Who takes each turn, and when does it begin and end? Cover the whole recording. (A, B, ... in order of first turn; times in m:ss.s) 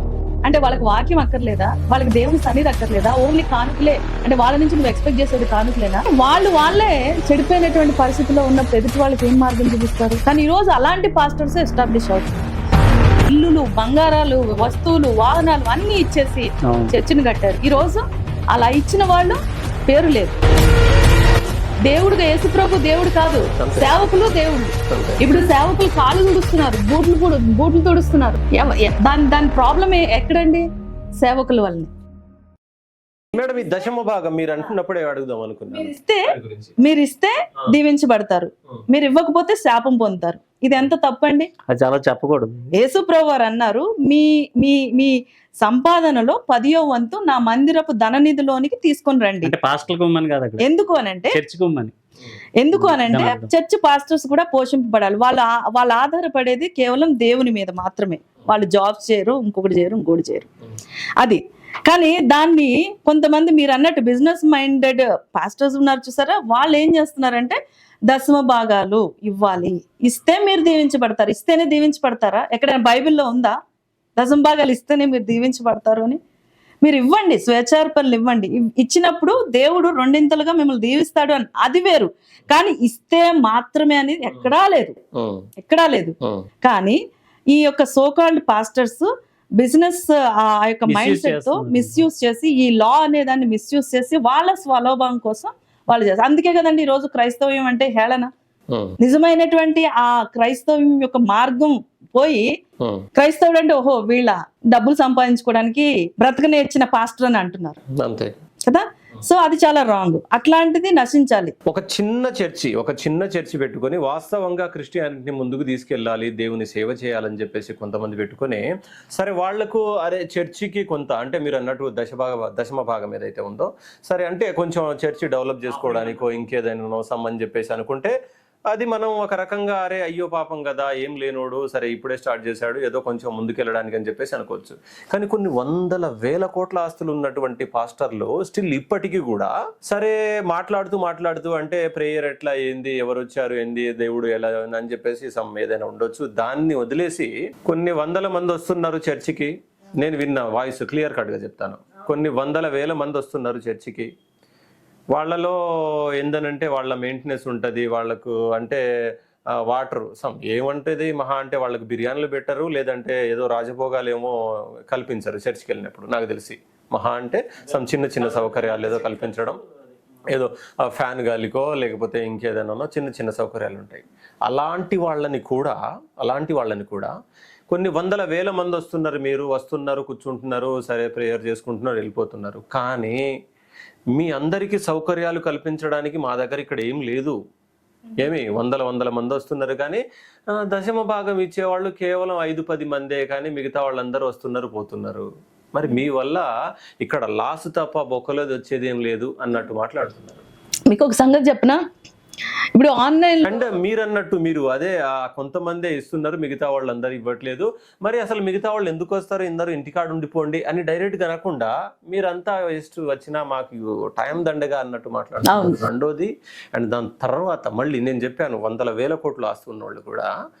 0:00.4-0:12.4 A
0:13.2-0:20.4 A
0:16.6-0:16.9 B
0:21.8-0:30.6 A
0:23.6-0:24.2 C
0:24.9-0:25.2 C
0:31.2-0:31.9 A
0:33.3-0:36.8 C
0:35.7-0:41.5 A
0:41.7-0:42.7 B
0:42.7-0:49.5 A
0:49.4-0:50.6 B
0:50.6-0:51.4 A
0:51.3-0:51.9 B
0:52.6-1:00.5 A
0:52.8-0:53.5 B
1:01.2-1:13.6 A
1:14.2-1:16.2 A
1:16.8-1:25.0 A
1:25.1-1:25.5 C
1:25.6-1:27.0 A
1:27.5-1:38.3 A
1:30.9-1:32.0 B
1:38.7-1:39.0 C
1:39.0-1:42.4 A
1:42.8-1:43.0 C
1:43.1-1:47.8 A
1:47.9-1:48.3 C
1:48.7-1:51.5 A
1:51.7-2:08.1 C
2:08.7-2:34.1 C
2:35.1-2:38.8 C
2:39.5-2:49.6 C
2:50.3-2:57.1 C
2:57.7-3:03.2 C
3:04.1-3:07.4 C
3:08.2-3:16.5 C
3:17.0-3:20.4 C
3:20.9-3:21.8 A
3:22.8-3:23.6 A
3:23.4-3:40.3 C
3:35.4-3:35.8 A